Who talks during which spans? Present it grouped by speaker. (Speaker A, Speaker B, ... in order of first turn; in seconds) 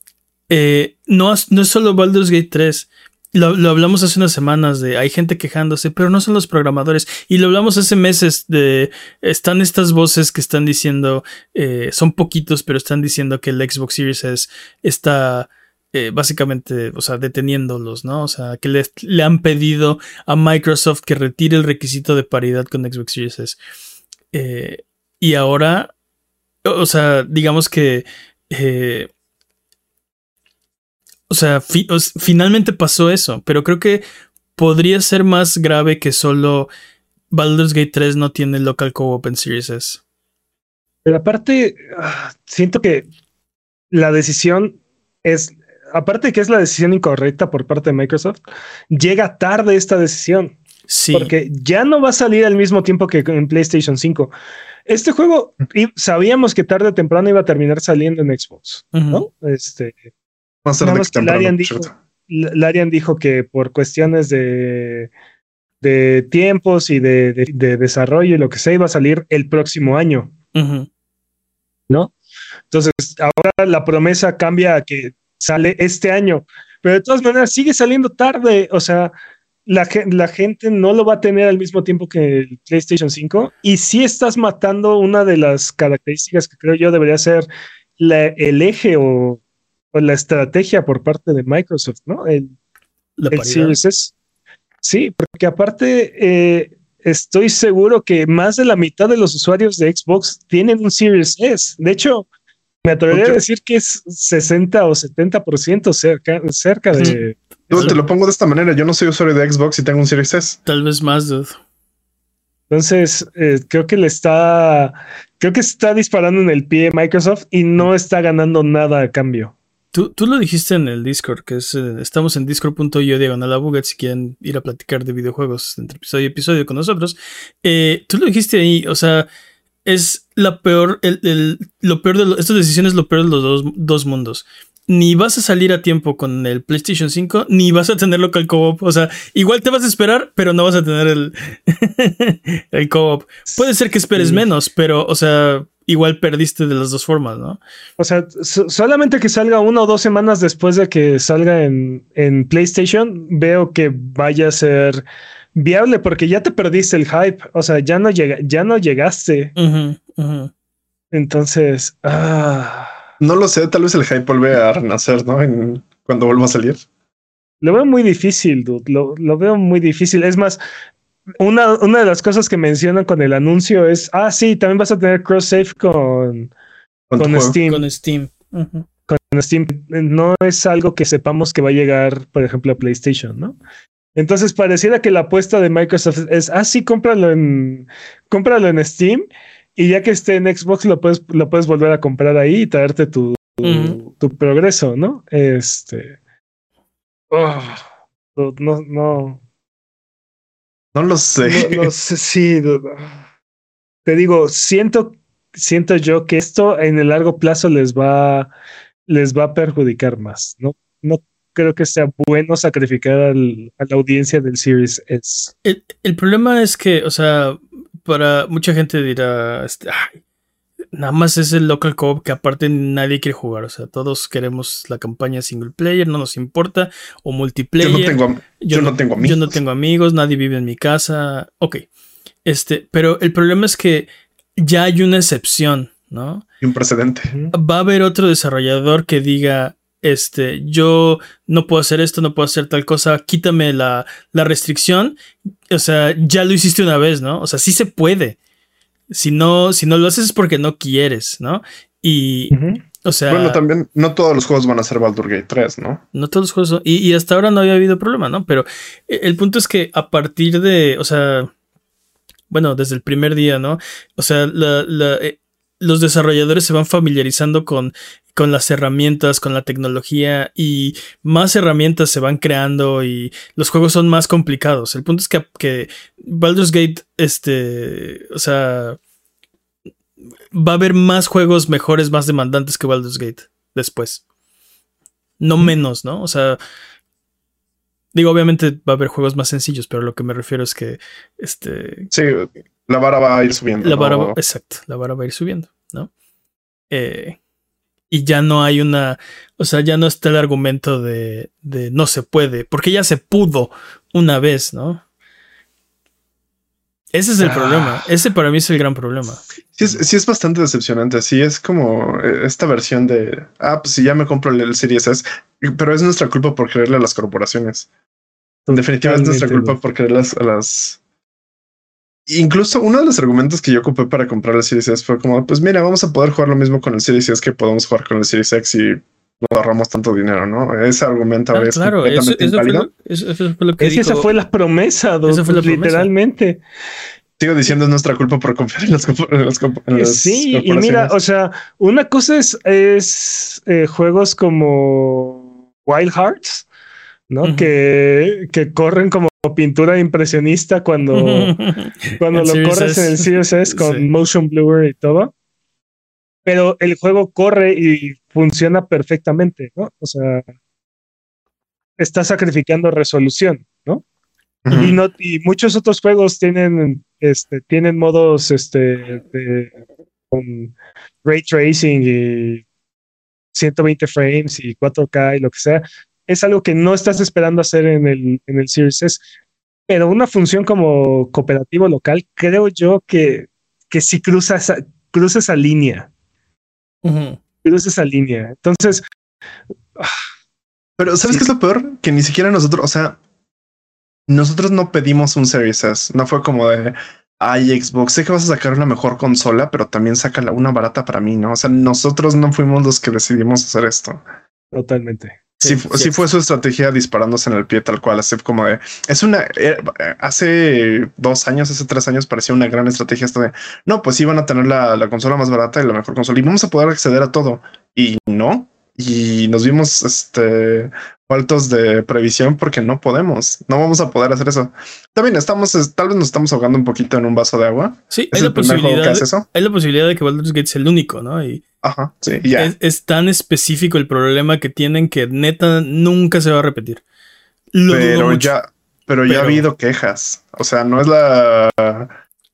Speaker A: 0.5-23.6, 24.3-25.9, 26.6-29.1, 31.3-34.0, 34.6-36.7, 37.3-40.0, 50.9-51.3, 58.9-59.3, 70.5-70.9, 93.2-93.8, 107.7-108.0, 110.7-111.6, 119.9-129.3, 129.8-147.6, 159.6-160.5, 177.7-178.9, 193.6-194.0, 215.6-220.2, 220.9-231.8, 232.5-234.1, 234.6-236.4, 237.5-245.2, 245.7-248.4, 249.1-253.6, 256.1-261.5, 262.5-279.0, 280.5-284.2, 285.4-286.6, 288.1-292.1, 293.8-296.1, 296.9-297.4, 298.1-305.0, 307.1-309.4, 331.5-334.3, 335.3-336.1, 347.4-347.7, 351.1-354.1, 387.0-387.4, 405.6-406.2, 428.1-431.6, 432.6-437.0, 437.7-438.5, 439.3-439.6
Speaker B: 41.0-43.1, 43.9-50.6, 51.1-54.3, 54.9-60.0, 60.8-65.1, 65.8-70.3, 72.7-79.1, 79.7-87.5, 88.0-89.4, 89.9-92.5, 93.3-94.1, 94.8-102.3, 102.8-107.4, 112.7-119.5, 144.2-144.4, 148.0-159.6, 161.1-162.9, 167.6-170.6, 171.4-176.5, 177.2-177.9, 179.1-183.6, 184.2-196.2, 197.3-197.8, 198.4-199.4, 201.4-203.1, 204.1-208.5, 209.1-215.5, 252.5-252.8, 307.4-308.1, 318.7-319.8, 333.8-336.6, 339.9-346.6, 347.3-351.6, 352.2-355.3, 356.4-360.4, 362.0-364.0, 364.7-369.8, 370.3-370.7, 371.2-372.6, 373.6-379.2, 379.9-386.1, 387.6-389.0, 404.7-405.4
Speaker C: 60.6-61.9, 103.1-103.4, 107.7-110.6, 163.2-166.8, 177.1-177.6, 200.9-201.9, 227.8-229.6, 236.6-237.3, 253.3-256.0, 292.1-294.4, 309.8-317.9, 318.7-321.0, 322.3-332.9, 337.4-341.1, 364.7-365.0, 391.0-393.2, 394.3-404.2, 405.6-429.5, 431.8-432.7, 437.9-442.1